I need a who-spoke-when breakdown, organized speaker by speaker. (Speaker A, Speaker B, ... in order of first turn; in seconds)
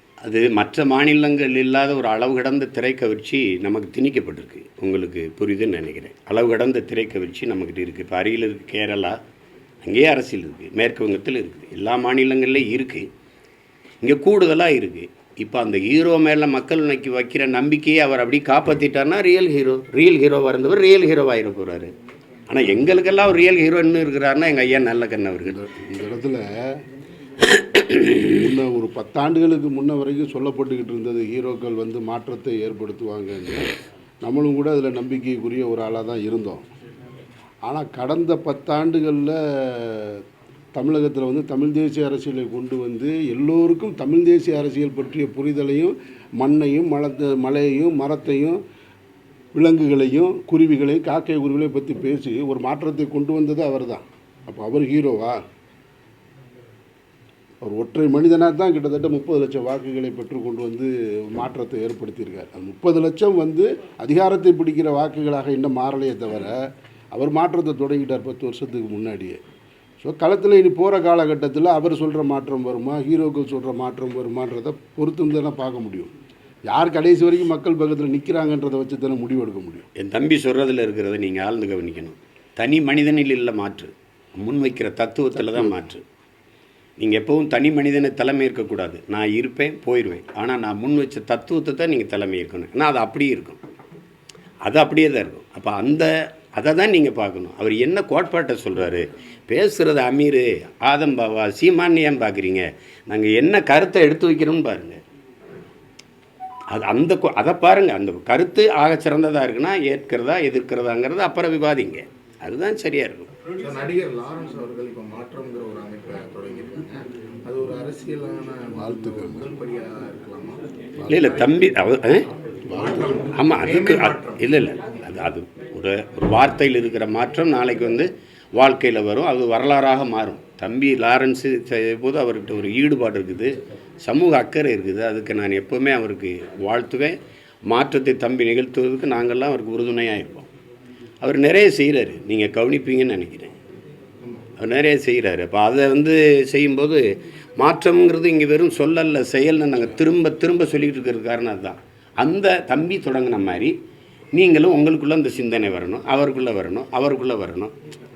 Speaker A: 0.2-9.2, 9.8-13.1, 14.0-21.9, 22.5-25.6, 27.8-28.2, 80.0-86.0, 87.0-93.6, 94.6-105.0, 106.7-113.3, 121.1-122.3, 123.3-140.5, 141.2-143.5, 144.6-147.0, 147.6-153.8, 154.3-157.7
Speaker B: 25.5-26.8, 28.2-33.7, 34.2-36.6, 37.7-40.2, 40.8-48.6, 49.5-55.4, 57.6-66.6, 67.1-69.4, 70.0-76.1, 76.7-79.9, 85.4-85.7, 118.8-119.5, 121.0-121.3, 122.7-123.3
Speaker C: 113.6-120.6, 121.2-121.5, 122.7-124.5